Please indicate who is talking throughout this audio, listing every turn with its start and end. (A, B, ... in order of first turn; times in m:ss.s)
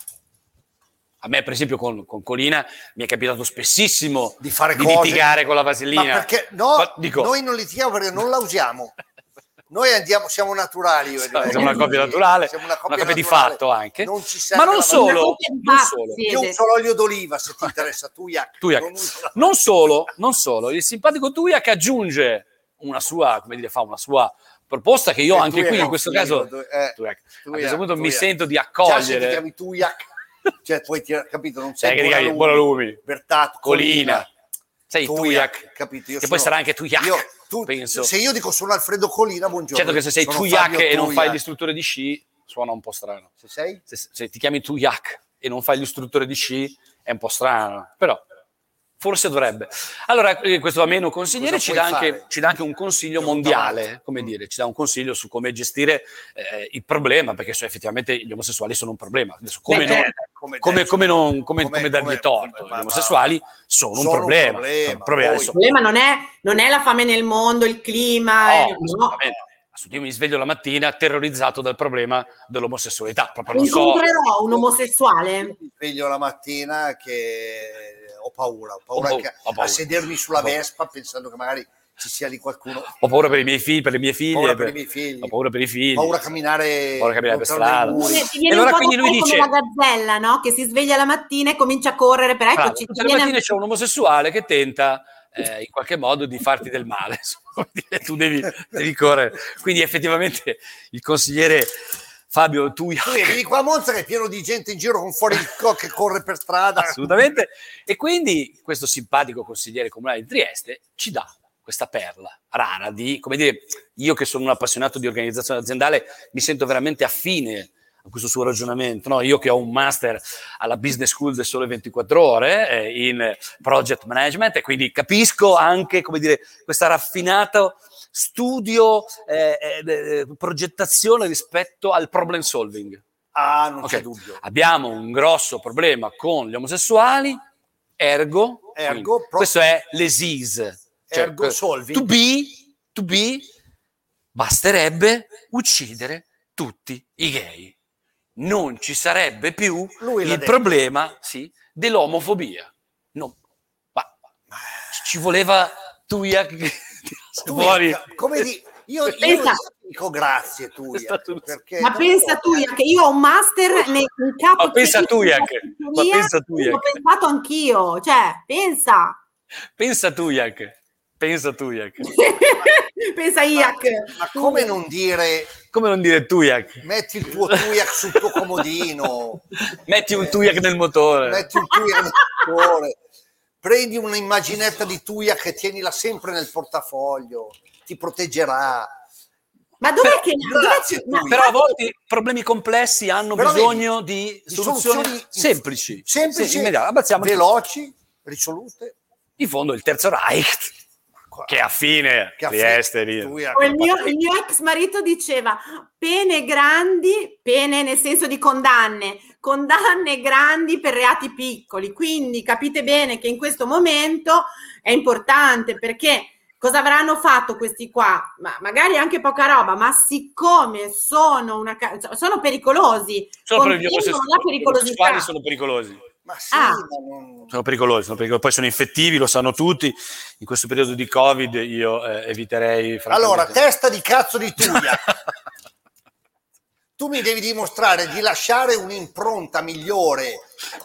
0:01.2-0:07.3 A
0:04.4-0:05.3 B
0:05.9-0:08.9 B
0:09.7-0:15.3 B
0:11.3-0:16.2 A
0:11.5-0:11.9 C
0:14.9-0:16.6 C
0:16.3-0:19.5 B
0:18.6-0:29.4 A
0:25.3-0:28.3 B
0:28.8-0:30.1 B
0:30.6-0:34.3 B
0:31.8-0:33.0 A
0:33.6-0:34.3 A
0:34.9-0:35.6 A
0:35.0-0:41.4 B
0:36.2-0:38.1 A
0:39.7-0:43.3 A
0:43.4-0:43.8 B
0:43.9-0:48.2 A
0:49.0-1:05.7 A
0:51.4-0:52.3 B
0:53.2-0:53.8 B
0:59.7-1:00.1 C
0:59.7-1:03.3 B
1:03.9-1:05.5 B
1:05.5-1:09.2 C
1:08.4-1:14.0 A
1:13.5-1:15.6 C
1:15.4-1:23.0 B
1:19.0-1:19.8 A
1:23.0-1:26.2 A
1:24.3-1:25.4 B
1:25.9-1:28.3 B
1:27.0-1:29.5 A
1:27.9-1:33.4 C
1:32.6-1:41.7 A
1:42.3-1:43.4 A
1:43.0-1:47.2 B
1:46.8-2:13.0 A
2:13.3-2:14.4 B
2:13.8-2:17.4 A
2:18.0-2:23.5 A
2:18.8-2:19.5 B
2:21.1-2:22.1 B
2:24.4-2:27.7 A
2:28.4-2:33.4 A
2:30.0-2:30.6 B
2:34.5-2:34.8 B
2:34.9-2:38.0 A
2:37.5-2:42.5 B
2:39.1-2:39.6 C
2:40.9-2:41.4 A
2:41.8-2:49.2 C
2:44.6-2:47.0 A
2:49.8-2:52.1 A
2:52.0-2:54.7 C
2:53.6-2:55.6 B
2:55.7-2:56.8 A
2:56.8-2:59.4 B
2:57.5-2:58.6 A
2:59.7-3:01.5 A
3:01.2-3:03.0 B
3:01.7-3:02.4 C
3:03.6-3:08.9 B
3:09.8-3:11.8 C
3:10.4-3:11.4 B
3:11.3-3:17.4 A
3:13.4-3:13.9 B
3:14.5-3:19.0 B
3:19.4-3:20.7 A
3:21.3-3:21.6 B
3:21.5-3:23.4 A
3:22.4-3:24.2 B
3:23.5-3:45.3 C
3:43.5-3:46.0 A
3:46.2-3:47.6 B
3:46.5-3:46.8 C
3:47.5-3:53.6 A
3:53.1-3:55.1 B
3:57.0-4:00.5 B